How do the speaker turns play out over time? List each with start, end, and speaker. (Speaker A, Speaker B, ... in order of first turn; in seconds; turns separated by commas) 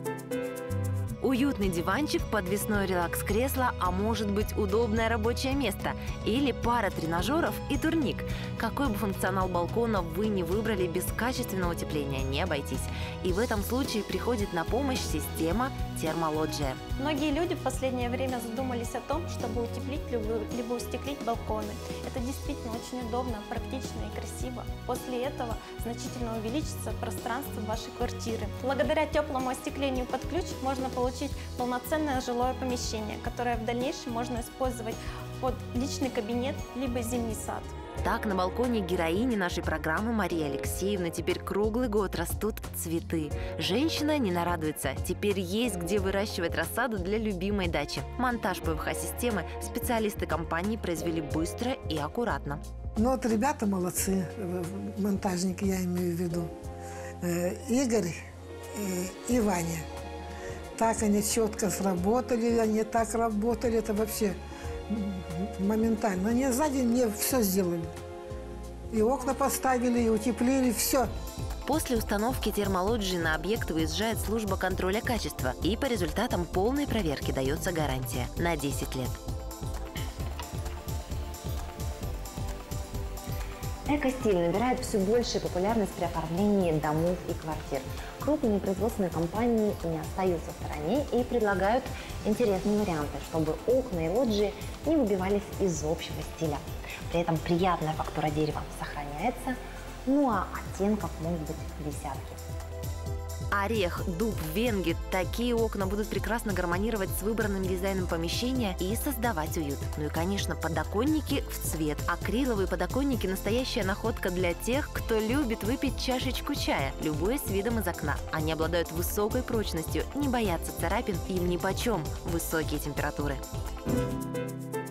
Speaker A: 1.2-16.8, Speaker B: 17.0-37.7, Speaker A: 38.0-52.6, Speaker C: 53.0-56.5, Speaker C: 57.2-58.1, Speaker C: 58.7-59.9, Speaker C: 60.8-64.4, Speaker C: 64.9-67.9, Speaker C: 68.9-71.1, Speaker A: 71.6-79.2, Speaker D: 83.9-102.4, Speaker A: 103.5-123.4